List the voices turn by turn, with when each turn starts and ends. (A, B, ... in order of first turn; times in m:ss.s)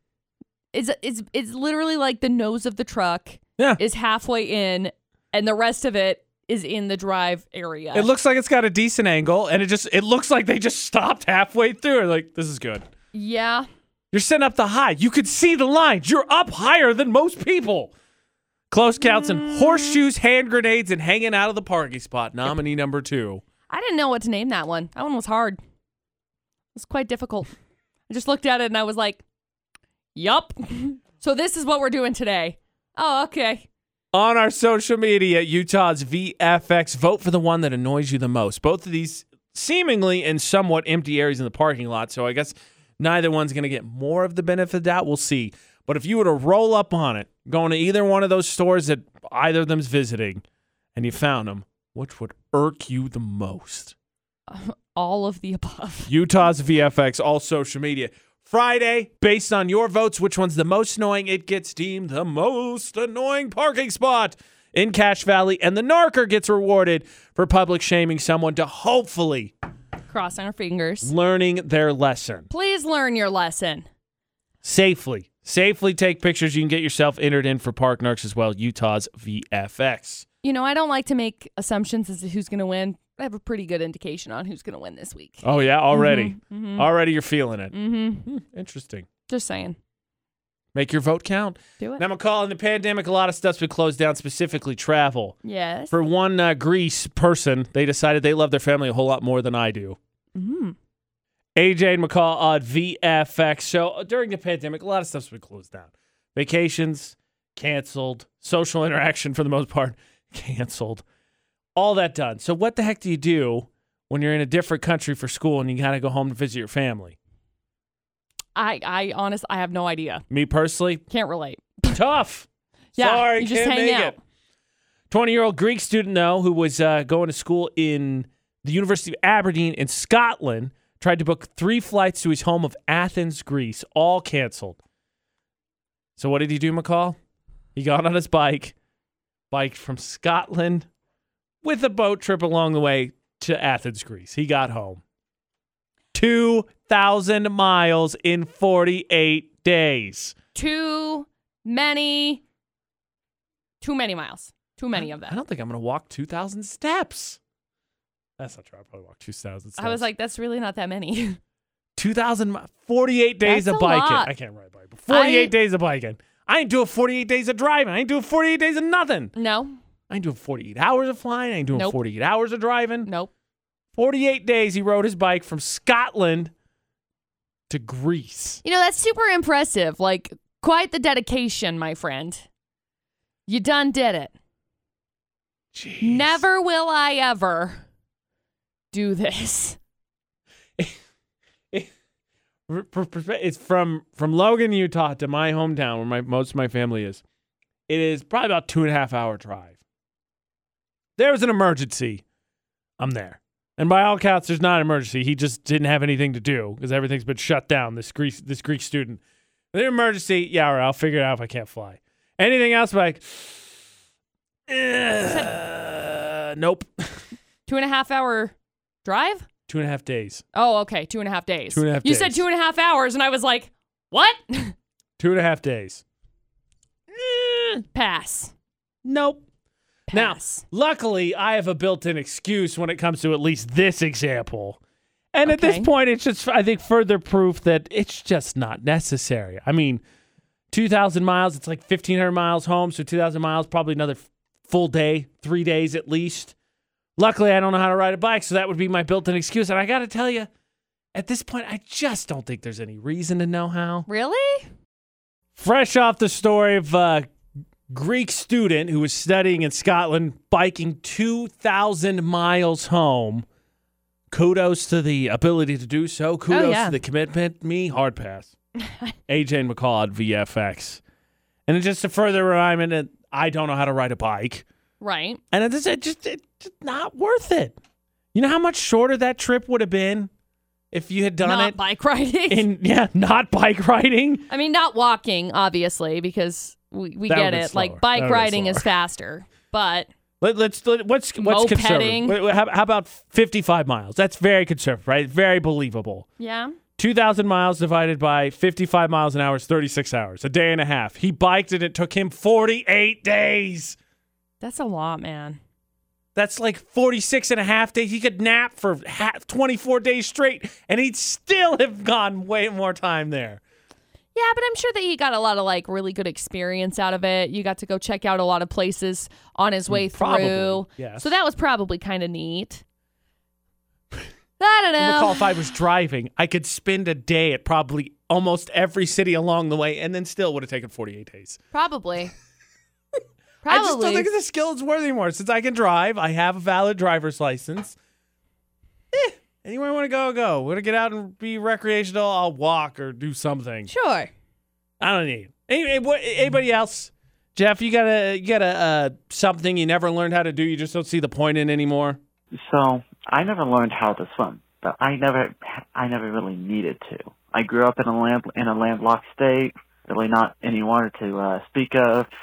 0:00.7-0:08.1 A
0:07.9-0:12.9 B
0:13.1-0:13.7 A
0:14.1-0:17.9 B
0:18.7-0:23.4 B
0:19.0-0:20.0 A
0:23.7-0:25.6 A
0:26.8-0:27.5 A
0:28.1-0:29.2 A
0:30.2-0:33.7 A
0:34.1-0:50.4 B
0:51.0-0:54.0 B
0:54.5-0:56.1 A
0:56.1-1:09.5 B
1:10.1-1:11.1 A
1:11.0-1:12.5 B
1:12.5-1:13.9 A
1:14.6-1:20.3 B
1:20.4-1:26.9 A
1:25.4-1:29.1 B
1:27.7-1:28.3 A
1:29.3-1:29.8 A
1:30.8-1:35.4 B
1:35.4-1:36.0 A
1:35.9-1:40.0 B
1:40.4-1:40.8 A
1:41.6-1:51.0 B
1:51.8-1:57.2 B
1:58.6-2:00.2 A
2:00.3-2:01.0 B
2:01.1-2:02.0 A
2:01.9-2:04.2 B
2:03.0-2:04.2 A
2:05.1-2:14.8 B
2:16.2-2:17.2 B
2:17.8-2:18.8 B
2:19.5-2:20.9 B
2:21.6-2:25.0 B
2:26.1-2:30.4 B
2:30.6-2:32.4 A
2:33.8-2:35.4 A
2:35.0-2:37.4 B
2:38.4-2:40.0 B
2:39.8-2:41.4 A
2:42.0-2:49.3 B
2:43.4-2:44.3 A
2:45.1-2:45.5 A
2:49.4-2:49.8 A
2:50.1-2:53.1 B
2:53.1-2:53.3 A
2:54.0-2:56.5 B
2:57.7-2:58.6 B
2:58.6-3:02.5 A
3:03.5-3:04.3 A
3:05.7-3:06.4 B
3:06.0-3:07.8 A
3:08.9-3:09.8 A
3:12.7-3:17.2 B
3:17.9-3:19.8 B
3:21.2-3:22.2 B
3:23.0-3:29.2 B
3:29.7-3:33.7 B
3:34.7-3:37.3 B
3:35.2-3:35.6 A
3:37.7-3:39.5 A
3:39.7-3:40.4 B
3:40.5-3:44.8 A
3:41.7-3:42.4 B
3:45.2-3:46.0 B
3:47.1-3:47.8 B
3:47.9-3:48.5 A
3:49.0-3:49.4 B
3:50.1-3:50.6 A
3:50.1-3:54.8 B
3:55.3-4:00.0 B
3:55.4-3:55.9 A
4:00.7-4:06.5 B
4:07.2-4:10.5 B
4:11.2-4:14.1 B
4:14.1-4:14.7 A
4:15.6-4:17.3 B
4:17.9-4:23.4 B
4:24.3-4:28.5 B
4:26.5-4:27.0 A
4:28.8-4:29.1 A
4:29.3-4:31.0 B
4:31.7-4:34.6 B
4:35.0-4:35.4 A
4:35.5-4:37.8 B
4:38.3-4:40.3 B
4:40.9-4:41.8 B
4:41.4-4:42.7 A
4:42.5-4:44.5 B
4:44.5-4:50.1 A
4:47.3-4:48.9 B
4:50.4-4:56.3 B
4:51.4-4:52.4 A
4:56.4-4:56.8 A
4:57.0-5:04.0 B
5:04.6-5:05.6 A
5:06.4-5:13.6 B
5:14.4-5:22.8 A
5:19.9-5:21.3 B
5:24.6-5:25.4 A
5:25.0-5:31.6 B
5:31.7-5:32.3 A
5:33.6-5:34.3 A
5:33.7-5:38.0 B
5:39.1-5:43.9 B
5:43.9-5:44.3 A
5:45.0-5:52.2 B
5:52.6-6:02.3 C